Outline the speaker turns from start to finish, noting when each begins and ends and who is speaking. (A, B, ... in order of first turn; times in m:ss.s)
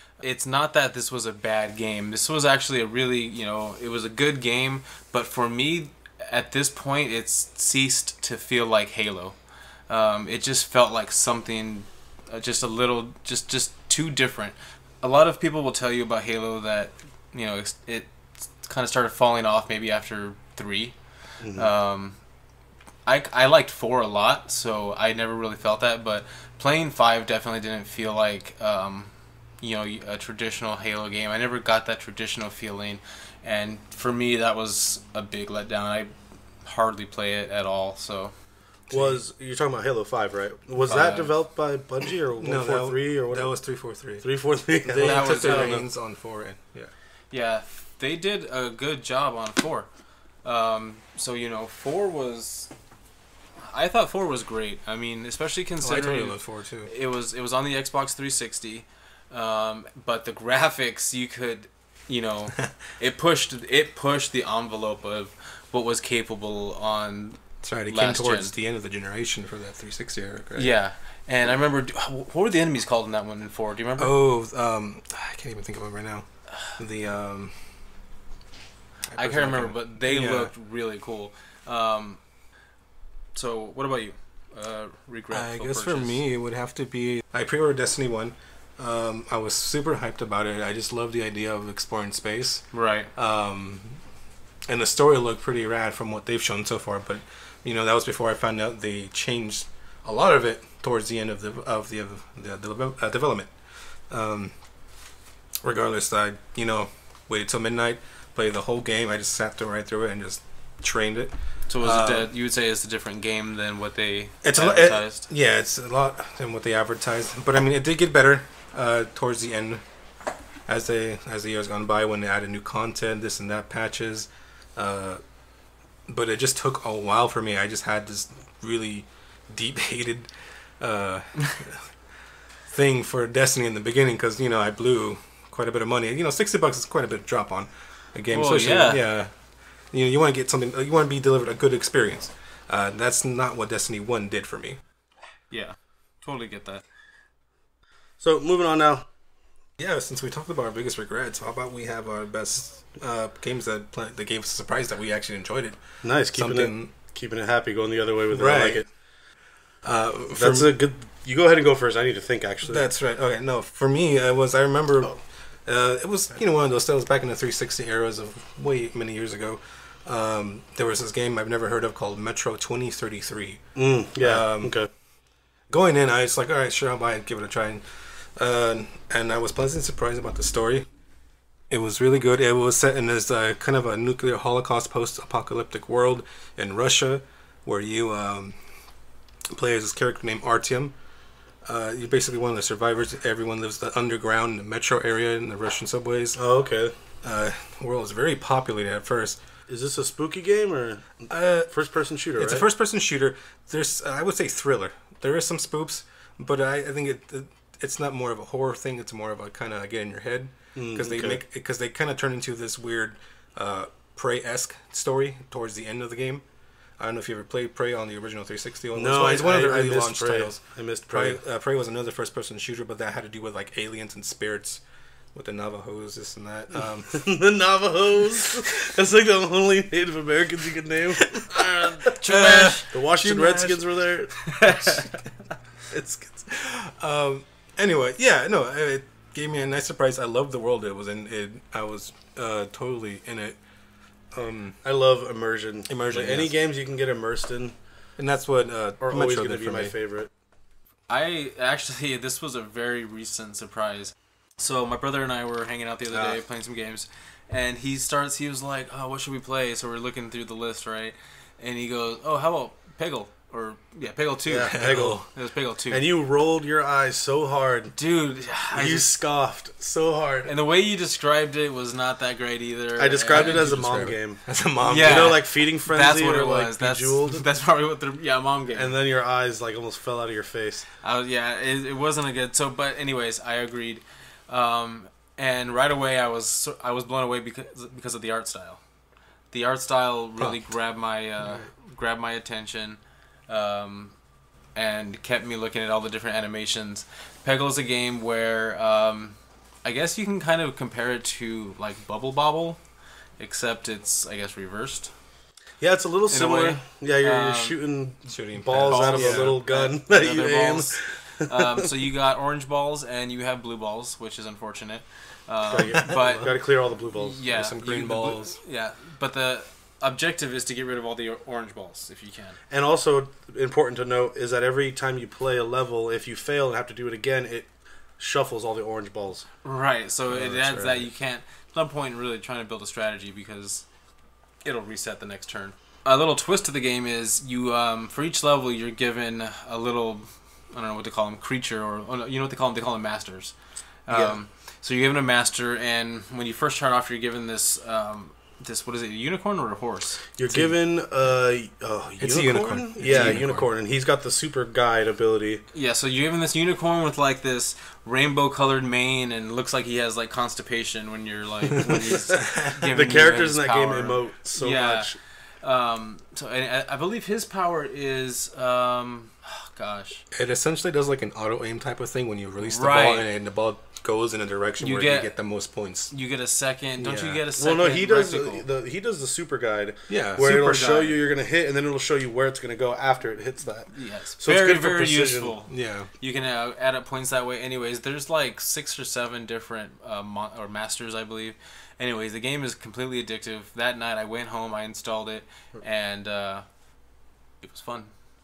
0:00.2-0:09.4 A
0:09.9-0:22.2 A
0:21.4-0:21.7 B
0:23.0-0:38.3 A
0:38.9-0:39.2 C
0:38.9-0:45.8 B
0:40.8-0:41.3 A
0:42.4-0:44.2 C
0:44.8-0:46.9 C
0:45.0-0:45.8 A
0:47.3-0:49.9 A
0:50.4-0:52.7 A
0:53.6-1:08.5 A
0:55.8-0:56.9 C
1:07.6-1:10.7 C
1:10.5-1:14.2 A
1:14.0-1:17.7 C
1:19.1-1:20.5 C
1:19.2-1:22.2 A
1:23.3-1:26.2 A
1:25.3-1:34.0 C
1:32.7-1:33.1 A
1:34.7-1:43.5 C
1:44.1-1:44.5 C
1:45.6-1:52.3 C
1:51.7-1:55.3 A
1:54.4-1:59.8 C
2:00.6-2:05.2 C
2:06.1-2:11.9 C
2:12.7-2:19.4 C
2:18.3-2:19.0 A
2:19.9-2:24.8 C
2:25.5-2:26.8 A
2:28.2-2:29.0 B
2:29.8-2:36.9 C
2:36.0-2:38.9 B
2:38.3-2:38.8 C
2:39.8-2:40.7 C
2:40.4-2:42.9 B
2:42.6-2:53.6 C
2:53.8-2:54.9 B
2:54.2-2:54.8 C
2:55.7-3:00.9 C
3:01.7-3:08.6 C
3:09.5-3:11.0 C
3:11.6-3:16.4 C
3:16.4-3:16.9 B
3:17.2-3:19.4 C
3:19.7-3:22.6 B
3:21.3-3:21.7 C
3:22.4-3:36.4 C
3:30.8-3:31.4 B
3:37.0-3:44.8 C
3:39.0-3:41.4 B
3:45.3-3:47.3 C
3:47.1-3:52.1 B
3:51.5-3:52.9 A
3:52.3-3:53.8 C
3:52.9-3:55.0 B
3:54.5-3:55.2 A
3:55.9-3:56.4 B
3:56.5-4:03.6 C
4:04.3-4:04.8 C
4:04.8-4:07.8 B
4:05.9-4:06.5 C
4:08.2-4:09.9 C
4:09.0-4:10.3 B
4:11.1-4:26.0 A
4:16.1-4:16.4 B
4:24.5-4:25.3 B
4:24.7-4:25.2 C
4:25.9-4:28.0 B
4:27.9-4:29.1 A
4:28.7-4:30.5 B
4:30.4-4:33.7 A
4:33.0-4:37.4 B
4:33.3-4:35.4 C
4:34.8-4:39.0 A
4:38.7-4:40.9 B
4:41.0-4:48.8 A
4:49.5-4:54.1 A
4:54.8-5:02.8 A
5:03.4-5:05.1 A
5:05.8-5:11.8 B
5:06.3-5:07.8 A
5:08.3-5:09.6 C
5:08.9-5:16.5 A
5:15.7-5:17.4 B
5:17.1-5:22.6 A
5:17.5-5:18.6 C
5:22.7-5:29.5 B
5:29.6-5:33.8 A
5:30.3-5:31.1 C
5:34.6-5:43.5 A
5:44.0-5:50.2 A
5:44.1-5:44.4 C
5:50.4-5:55.6 B
5:50.5-5:50.7 C
5:52.2-5:53.6 C
5:53.0-5:53.4 A
5:55.7-6:10.2 A
6:01.9-6:05.2 B
6:10.3-6:16.1 C
6:12.6-6:13.3 A
6:14.8-6:15.3 A
6:16.1-6:18.6 A
6:17.0-6:17.4 C
6:17.6-6:25.5 B
6:20.1-6:20.5 C
6:20.4-6:21.2 A
6:23.9-6:36.6 A
6:25.7-6:26.1 C
6:37.6-6:38.1 A